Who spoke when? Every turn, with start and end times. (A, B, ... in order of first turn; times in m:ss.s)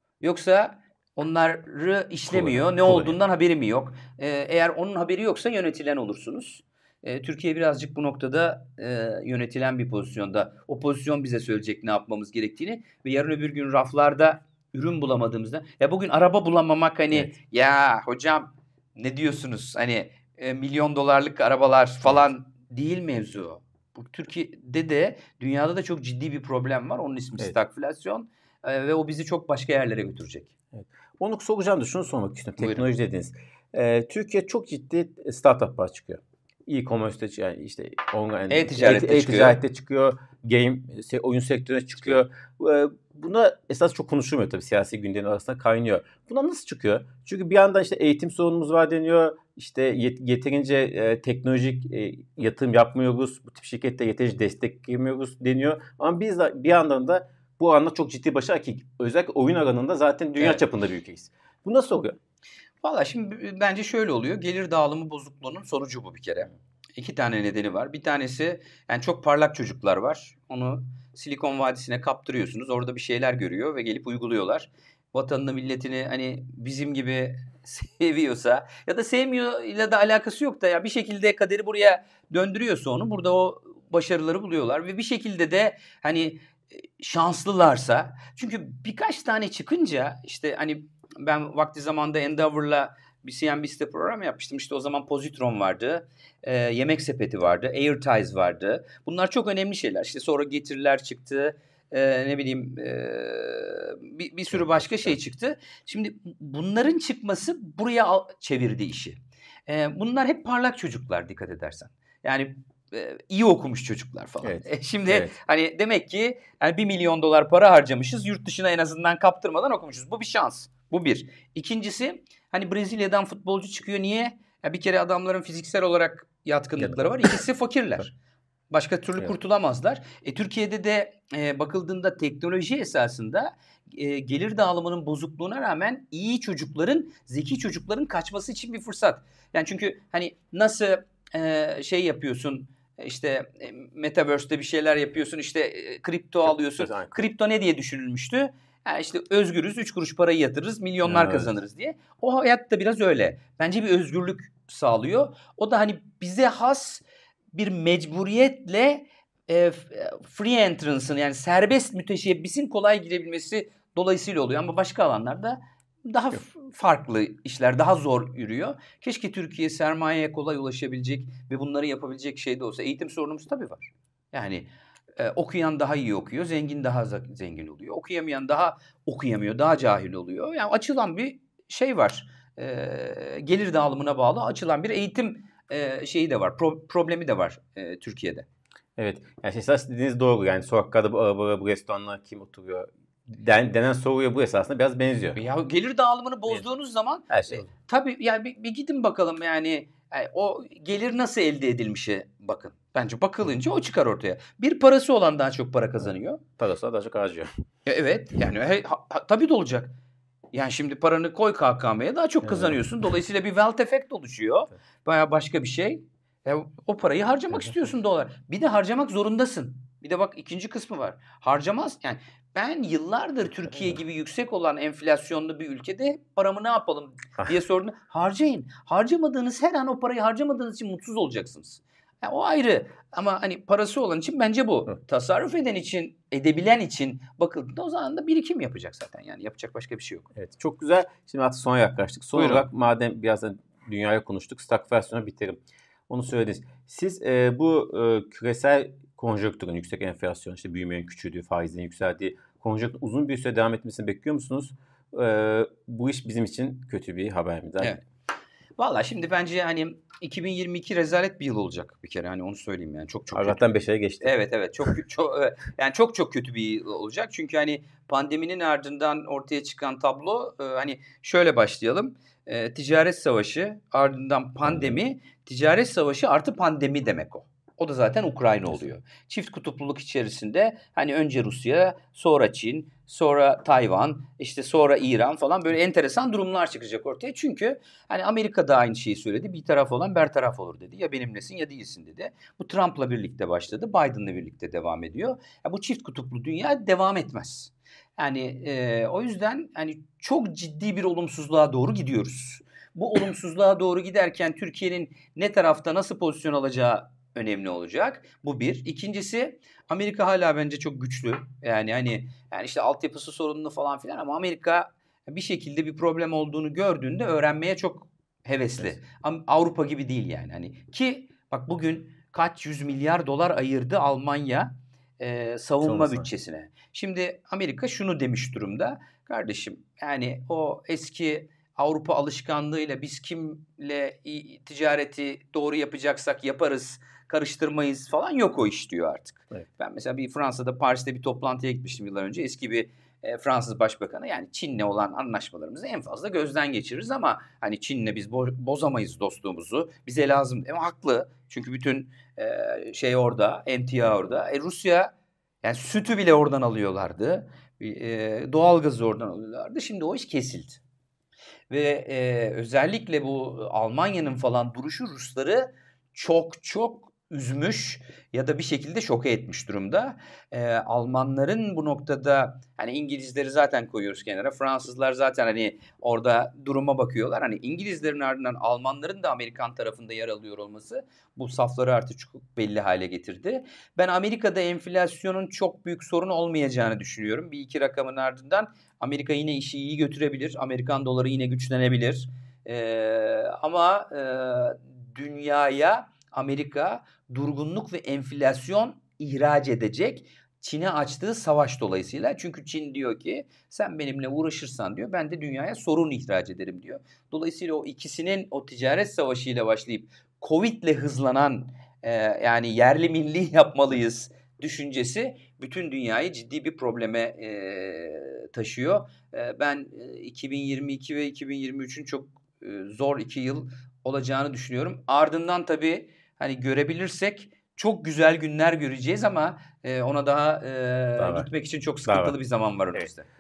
0:00.2-0:30.5 A
0:02.3-0:03.2 B
0:30.7-1:02.2 B
0:38.5-0:39.6 A
1:02.8-1:26.4 A
1:27.0-2:08.2 A
1:44.5-1:45.1 B
1:54.4-1:55.3 B
2:08.7-2:37.0 A
2:26.4-2:27.2 B
2:31.0-2:31.5 B
2:37.5-3:08.5 A
3:09.0-3:15.4 B
3:15.4-3:26.4 A
3:17.3-3:17.6 B
3:26.6-3:27.5 B
3:27.9-3:29.9 A
3:30.5-4:00.3 A
3:32.5-3:32.8 B
4:00.4-4:18.0 B
4:02.4-4:02.7 A
4:18.8-4:23.6 A
4:23.3-4:24.3 B
4:24.2-5:55.1 A
5:25.8-5:26.3 B
5:55.6-6:00.8 A
6:01.7-7:13.3 A
7:11.2-7:11.5 B
7:12.1-7:12.4 B